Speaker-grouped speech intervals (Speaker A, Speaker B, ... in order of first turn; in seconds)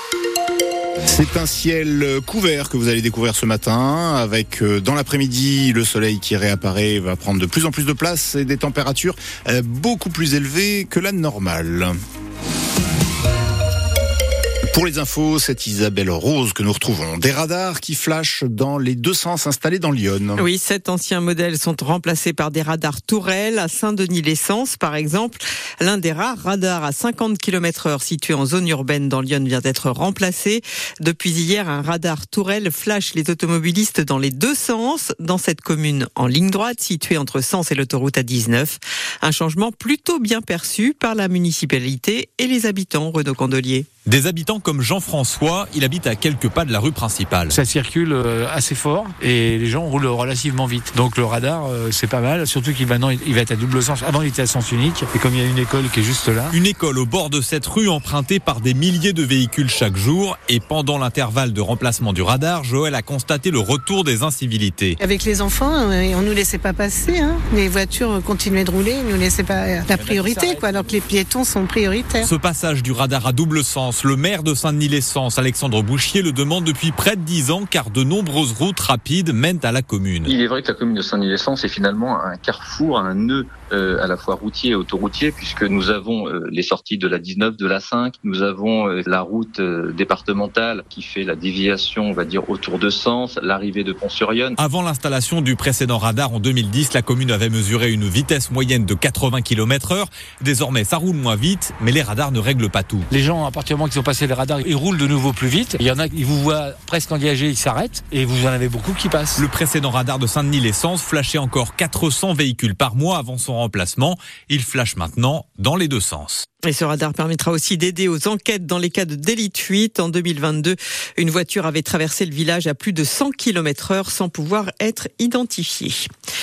Speaker A: 1.1-11.9, 14.7-20.5
Speaker B: 20.4-43.9, 116.6-126.1
Speaker C: 44.0-47.6, 56.5-65.0, 69.9-70.9, 72.2-80.3, 94.6-103.1, 109.4-116.4
Speaker D: 47.6-56.5, 103.2-109.4
Speaker E: 65.0-72.3
Speaker F: 80.3-94.6